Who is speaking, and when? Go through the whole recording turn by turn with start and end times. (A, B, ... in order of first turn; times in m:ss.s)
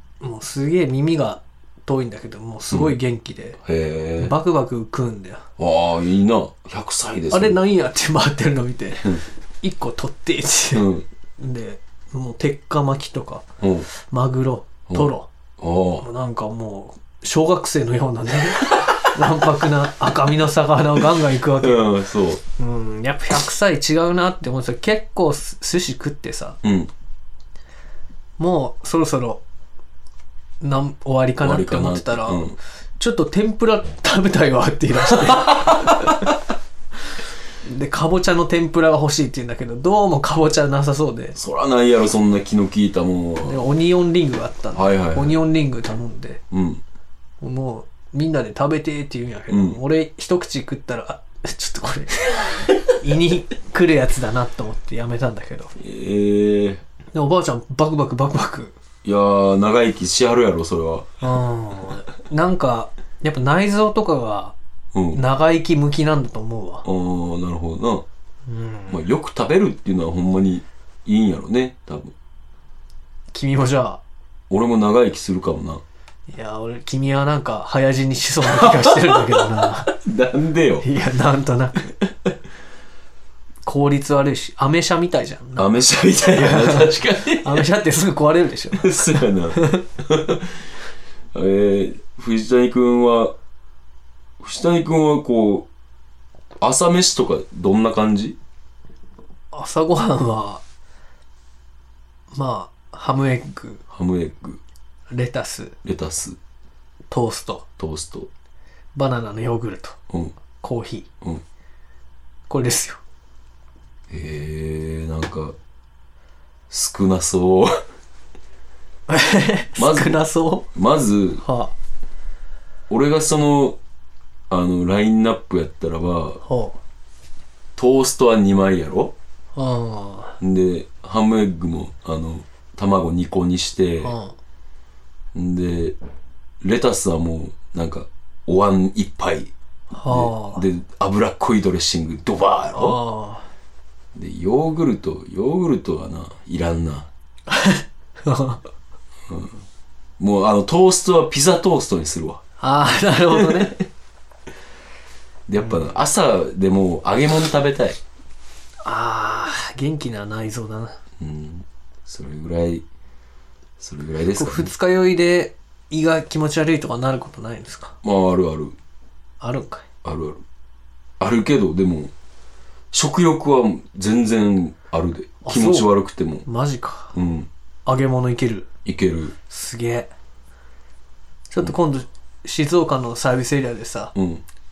0:00.2-0:03.6 A
0:02.7-0:03.0 B
0:03.6-0:04.3 B
0:04.2-0:05.4 A
0:05.6-0:07.6 B
0:07.3-0:15.3 A
0:10.7-0:11.0 B
0:13.6-0:13.9 B
0:14.9-0:16.1 B
0:16.0-0:22.0 A
0:21.6-0:22.4 B
0:22.6-0:26.6 A
0:26.6-0:26.9 B
0:28.4-0:29.4 A
0:30.6-0:36.3 A
0:31.4-0:32.6 B
0:35.1-0:36.3 B
0:37.6-0:41.4 A
0:41.4-0:43.6 B
0:43.4-0:46.4 A
0:44.8-0:45.4 B
0:46.5-0:46.8 B
0:47.4-0:55.7 A
0:49.5-0:49.8 B
0:55.8-0:56.8 B
0:57.1-0:58.8 A
0:59.0-1:01.1 B
1:01.2-1:04.6 A
1:04.9-1:05.2 B
1:05.1-1:06.9 A
1:06.8-1:08.0 B
1:08.5-1:09.0 A
1:08.9-1:12.2 B
1:13.3-1:14.0 A
1:14.5-1:15.8 B
1:16.3-1:19.9 A
1:18.4-1:20.9 B
1:20.8-1:21.9 A
1:23.6-1:29.8 A
1:25.6-1:27.7 B
1:28.7-1:30.5 B
1:31.3-1:33.4 B
1:34.4-1:35.7 B
1:36.6-1:38.4 B
1:39.5-1:40.6 A
1:42.3-1:43.8 A
1:43.9-1:44.6 B
1:45.1-1:45.8 A
1:45.8-1:46.4 B
1:47.1-1:47.7 A
1:47.8-1:48.3 B
1:49.0-1:50.0 A
1:50.1-1:50.4 B
1:50.6-1:51.1 A
1:52.5-1:53.0 A
1:54.1-1:55.6 B
1:56.7-1:57.7 B
1:59.1-2:00.7 A
1:59.8-2:00.2 B
2:00.7-2:01.4 B
2:01.4-2:01.7 A
2:02.9-2:03.8 B
2:04.5-2:06.4 B
2:06.4-2:06.8 A
2:07.8-2:09.2 B
2:09.6-2:10.4 A
2:10.4-2:14.2 B
2:14.0-2:14.4 A
2:15.3-2:16.0 B
2:16.6-2:19.5 B
2:19.9-2:20.6 A
2:20.1-2:23.0 B
2:22.7-2:23.5 A
2:24.2-2:27.1 B
2:27.5-2:28.6 A
2:29.3-2:29.6 B
2:30.2-2:32.4 B
2:32.6-2:33.8 A
2:33.4-2:33.7 B
2:35.5-2:38.0 B
2:35.6-2:35.9 A
2:38.8-2:41.0 A
2:41.2-2:42.8 B
2:43.8-2:44.7 B
2:44.4-2:48.0 A
2:48.0-2:48.8 B
2:49.4-2:49.9 A
2:50.0-2:50.4 B
2:51.2-2:52.1 B
2:52.9-2:56.4 B
2:55.4-2:55.9 A
2:56.4-2:57.2 A
2:57.1-2:57.5 B
2:57.9-2:58.7 A
2:58.8-2:59.4 B
2:59.5-3:00.1 A
3:01.5-3:04.1 A
3:04.2-3:04.4 B